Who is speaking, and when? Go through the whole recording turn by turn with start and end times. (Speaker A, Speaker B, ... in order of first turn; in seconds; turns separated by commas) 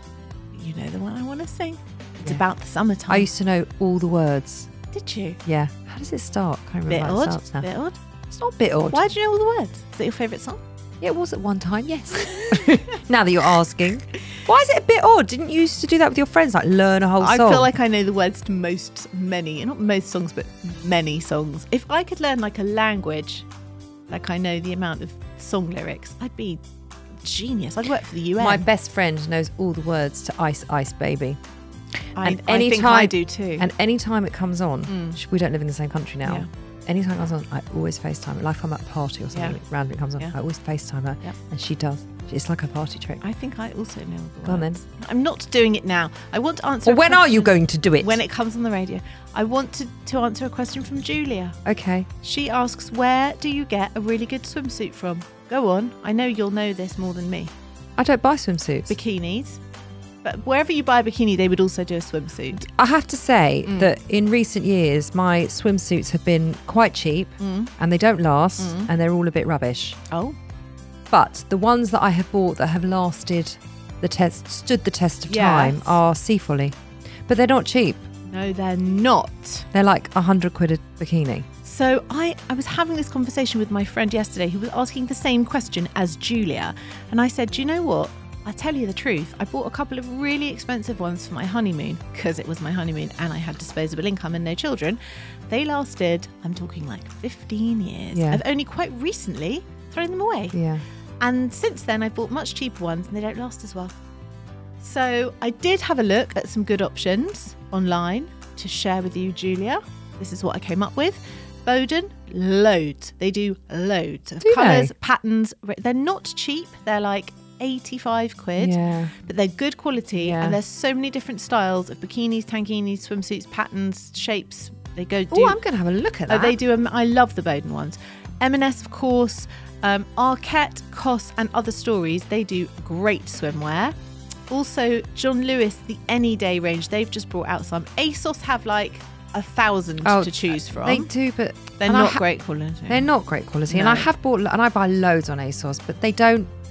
Speaker A: 0.5-3.3, Speaker B: 3.1-4.7, Speaker A: 4.9-5.4, Speaker B: 5.5-7.7, Speaker A: 6.9-8.0, Speaker B: 8.3-9.1, Speaker A: 8.9-10.6, Speaker B: 11.0-17.7, Speaker A: 17.2-23.5, Speaker A: 24.1-26.6, Speaker A: 27.2-28.7, Speaker B: 28.4-31.4, Speaker A: 32.2-33.7, Speaker B: 32.2-43.2, Speaker A: 34.9-35.2, Speaker A: 39.3-39.6, Speaker A: 43.2-51.6, Speaker B: 44.5-44.8, Speaker B: 46.9-48.2, Speaker B: 51.6-52.1, Speaker A: 52.2-57.5, Speaker B: 58.0-58.9, Speaker A: 58.9-59.6, Speaker A: 60.2-62.7, Speaker B: 62.6-70.0, Speaker A: 63.6-63.9, Speaker A: 67.4-67.7, Speaker A: 68.6-68.9, Speaker A: 70.1-70.4, Speaker B: 71.1-76.8, Speaker A: 75.3-76.0, Speaker B: 77.3-78.1, Speaker A: 78.3-79.7, Speaker B: 79.7-81.5, Speaker A: 81.6-100.6, Speaker B: 98.1-98.4, Speaker B: 100.5-100.8, Speaker A: 101.2-104.0, Speaker A: 104.8-125.6, Speaker B: 114.4-114.9, Speaker B: 118.6-119.1, Speaker B: 120.2-120.6, Speaker B: 125.3-126.6, Speaker A: 126.3-133.9, Speaker A: 134.5-141.1, Speaker B: 140.0-142.2, Speaker A: 141.8-143.1, Speaker B: 142.9-146.5, Speaker A: 143.7-144.1